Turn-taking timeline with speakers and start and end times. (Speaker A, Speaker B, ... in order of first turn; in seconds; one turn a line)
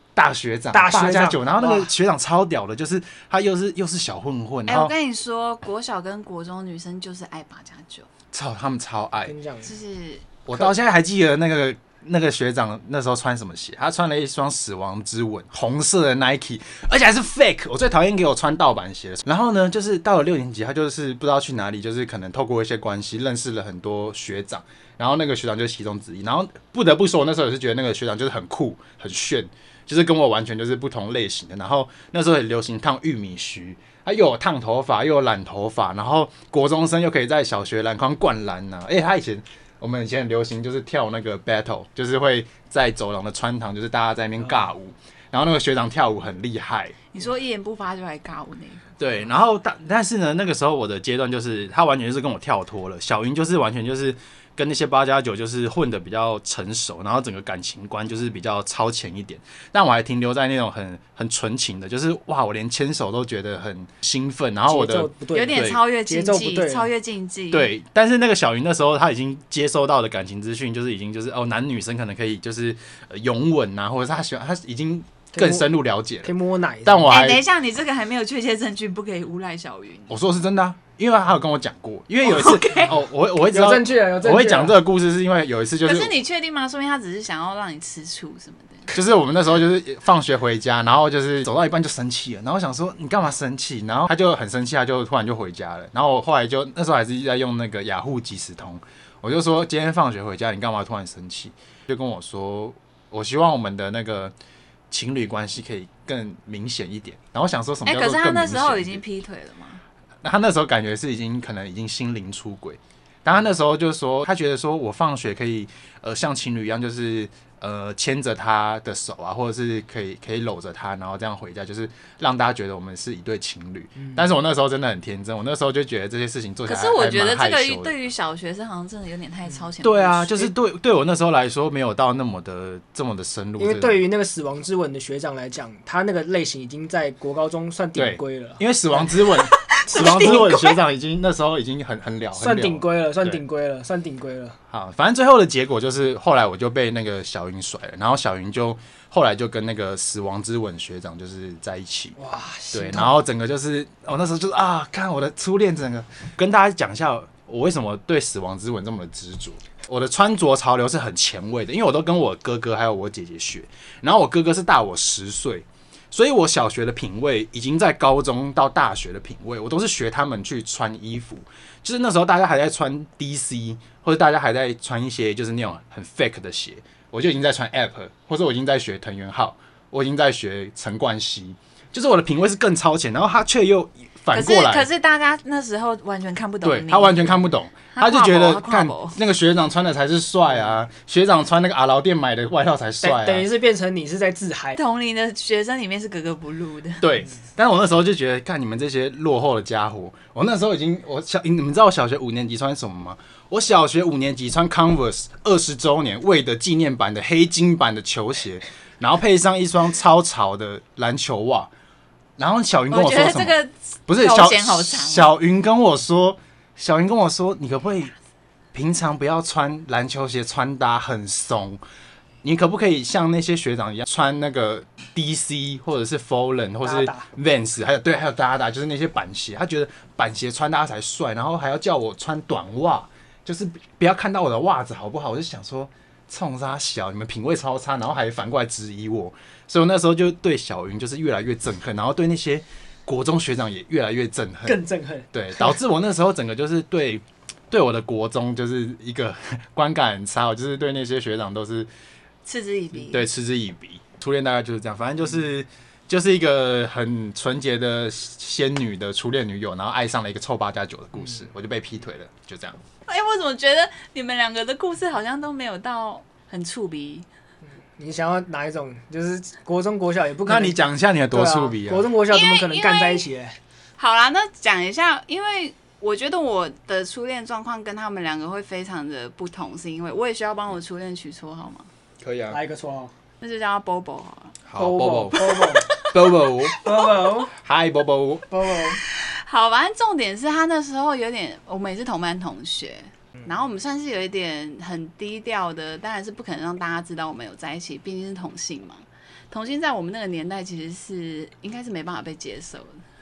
Speaker A: 0.1-4.9
Speaker B: 0.7-1.9
Speaker C: 4.7-8.1
Speaker A: 8.3-9.3
Speaker B: 9.2-9.7
Speaker C: 9.6-10.4
Speaker A: 10.4-47.0
Speaker C: 47.1-49.0
Speaker A: 49.0-65.8
Speaker B: 64.7-66.9
Speaker C: 65.3-67.7
Speaker A: 67.5-76.3
Speaker B: 75.3-75.7
Speaker B: 76.2-77.2
Speaker A: 76.8-77.4
Speaker C: 77.1-80.2
Speaker A: 80.1-86.2
Speaker C: 82.2-83.0
Speaker B: 83.5-84.8
Speaker C: 85.8-88.9
Speaker A: 88.9-104.3
Speaker A: 104.9-109.0
Speaker C: 107.8-109.8
Speaker A: 110.2-127.9
Speaker B: 124.0-124.2
Speaker C: 126.7-130.5
Speaker A: 129.8-134.0
Speaker B: 133.6-139.1
Speaker A: 137.9-143.4
Speaker C: 139.4-140.8
Speaker B: 142.4-144.6
Speaker A: 144.7-152.2
Speaker B: 152.2-153.2
Speaker A: 152.7-184.9
Speaker C: 184.3-189.2
Speaker A: 186.6-193.5
Speaker B: 193.0-194.8
Speaker C: 194.8-197.1
Speaker A: 197.0-211.7
Speaker A: 212.4-213.5
Speaker C: 212.9-215.3
Speaker A: 214.1-218.1
Speaker A: 218.7-221.8
Speaker A: 222.4-244.8
Speaker B: 226.8-227.3
Speaker B: 244.7-245.7
Speaker A: 245.3-251.9
Speaker C: 252.4-253.3
Speaker A: 253.1-262.8
Speaker C: 263.1-267.3
Speaker B: 268.0-270.8
Speaker A: 270.4-272.1
Speaker B: 271.3-273.6
Speaker C: 272.3-273.2
Speaker C: 274.0-281.9
Speaker A: 282.2-282.6
Speaker B: 282.5-283.1
Speaker C: 283.4-284.6
Speaker A: 284.7-286.8
Speaker B: 284.8-285.9
Speaker C: 285.3-286.9
Speaker B: 286.8-287.5
Speaker A: 287.6-288.5
Speaker B: 288.5-289.0
Speaker C: 289.0-303.0